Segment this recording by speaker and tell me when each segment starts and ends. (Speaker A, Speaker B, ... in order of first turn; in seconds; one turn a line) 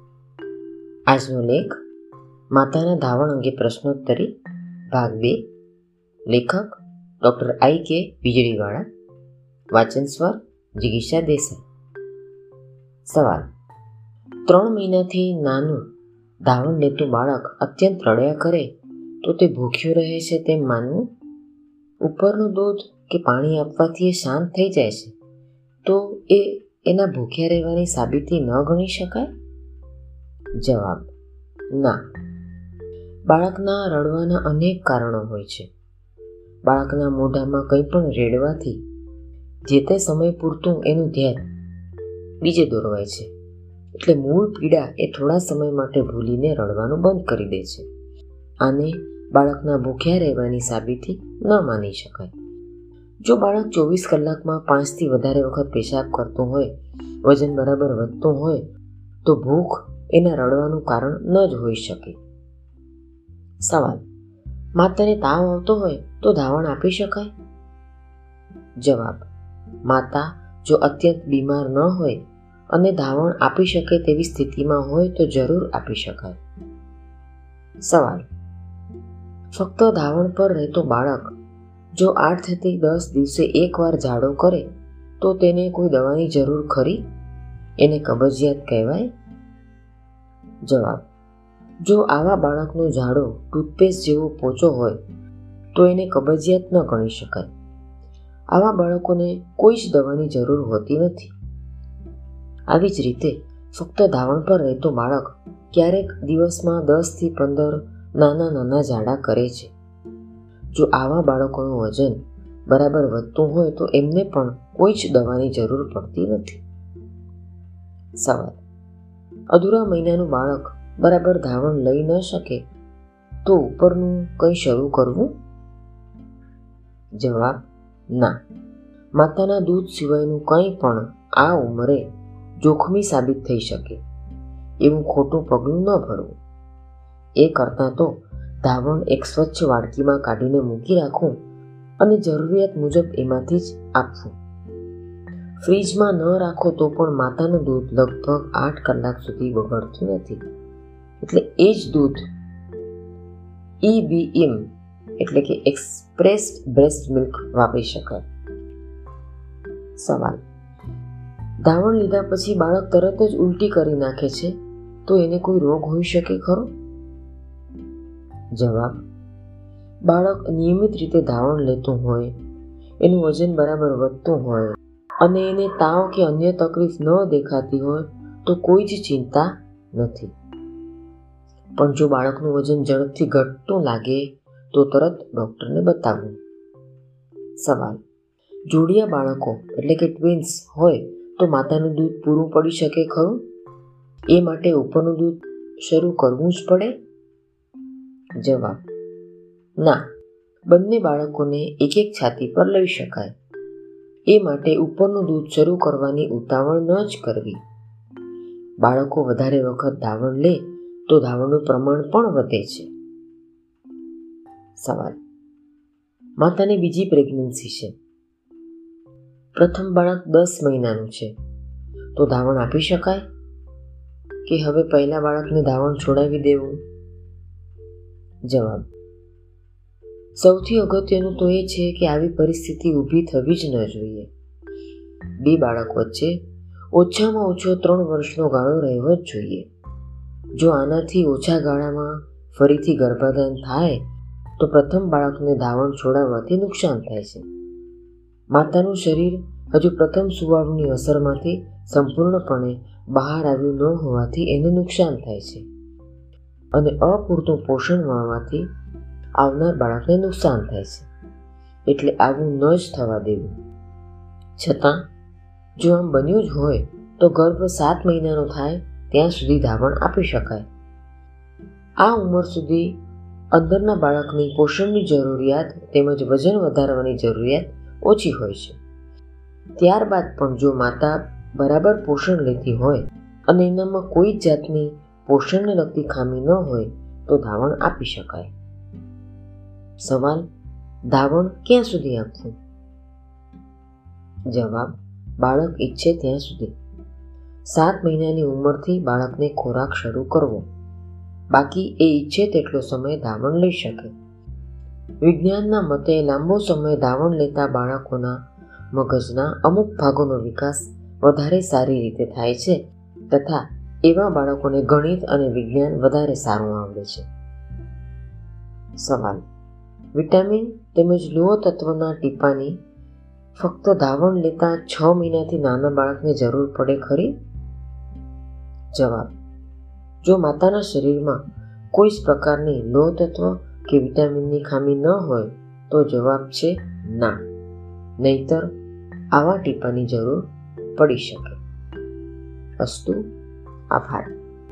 Speaker A: 1.1-1.8
Speaker A: 2.5-4.3
Speaker A: 4.9-5.5
Speaker A: 6.3-8.8
Speaker A: 9.7-11.6
Speaker A: 13.1-13.5
Speaker A: 14.5-15.8
Speaker A: 16.4-18.7
Speaker A: 19.2-21.1
Speaker A: 22.0-25.1
Speaker A: 25.9-29.3
Speaker A: 30.6-31.1
Speaker A: 31.7-32.0
Speaker A: 33.3-35.7
Speaker A: 36.7-38.8
Speaker A: 39.7-41.5
Speaker A: 42.4-43.3
Speaker A: 44.0-47.9
Speaker A: 48.6-52.3
Speaker A: 53.2-58.7
Speaker A: 59.2-62.2
Speaker A: 63.6-64.0
Speaker A: 64.8-67.3
Speaker A: 68.8-69.3
Speaker A: 69.9-72.2
Speaker A: 72.7-76.4
Speaker A: 77.8-78.2
Speaker A: 79.6-81.3
Speaker A: 82.0-84.7
Speaker A: 85.2-87.0
Speaker A: 87.8-89.1
Speaker A: 90.7-91.0
Speaker A: 91.8-95.0
Speaker A: 95.8-97.5
Speaker A: 98.5-101.3
Speaker A: 102.7-109.7
Speaker A: 110.7-116.6
Speaker A: 118.2-118.6
Speaker A: 119.5-122.7
Speaker A: 123.5-125.3
Speaker A: 127.2-128.4
Speaker A: 129.2-132.0
Speaker A: 132.6-134.0
Speaker A: 134.8-136.4
Speaker A: 137.4-141.4
Speaker A: 142.0-144.4
Speaker A: 145.6-150.4
Speaker A: 151.2-152.2
Speaker A: 153.8-154.7
Speaker A: 155.2-158.2
Speaker A: 160.0-160.4
Speaker A: 161.6-166.7
Speaker A: 168.6-169.0
Speaker A: 170.1-172.3
Speaker A: 173.0-180.3
Speaker A: 181.8-186.4
Speaker A: 187.6-188.0
Speaker A: 188.7-193.4
Speaker A: 194.3-196.9
Speaker A: 198.4-198.8
Speaker A: 200.7-203.3
Speaker A: 204.3-207.6
Speaker A: 208.8-212.9
Speaker A: 214.8-215.2
Speaker A: 216.4-217.9
Speaker A: 219.6-221.3
Speaker A: 222.2-223.2
Speaker A: 224.5-226.8
Speaker A: 228.4-228.9
Speaker A: 230.4-234.3
Speaker A: 235.4-236.4
Speaker A: 236.9-239.7
Speaker A: 240.6-244.0
Speaker A: 244.6-247.4
Speaker A: 248.5-255.7
Speaker A: 256.7-258.7
Speaker A: 259.4-261.1
Speaker A: 261.9-263.5
Speaker A: 264.6-265.0
Speaker A: 265.8-270.7
Speaker A: 272.0-273.0
Speaker A: 273.5-278.8
Speaker A: 279.8-288.5
Speaker A: 290.0-290.5
Speaker A: 291.1-292.6
Speaker A: 294.5-296.7
Speaker A: 297.7-300.6
Speaker A: 301.5-304.1
Speaker A: 305.2-308.4
Speaker A: 308.9-317.3
Speaker A: 319.0-319.4
Speaker A: 320.1-322.8
Speaker A: 323.6-327.4
Speaker A: 328.9-329.3
Speaker A: 330.2-337.4
Speaker A: 338.2-338.7
Speaker A: 339.3-341.6
Speaker A: 342.8-343.2
Speaker A: 343.9-344.4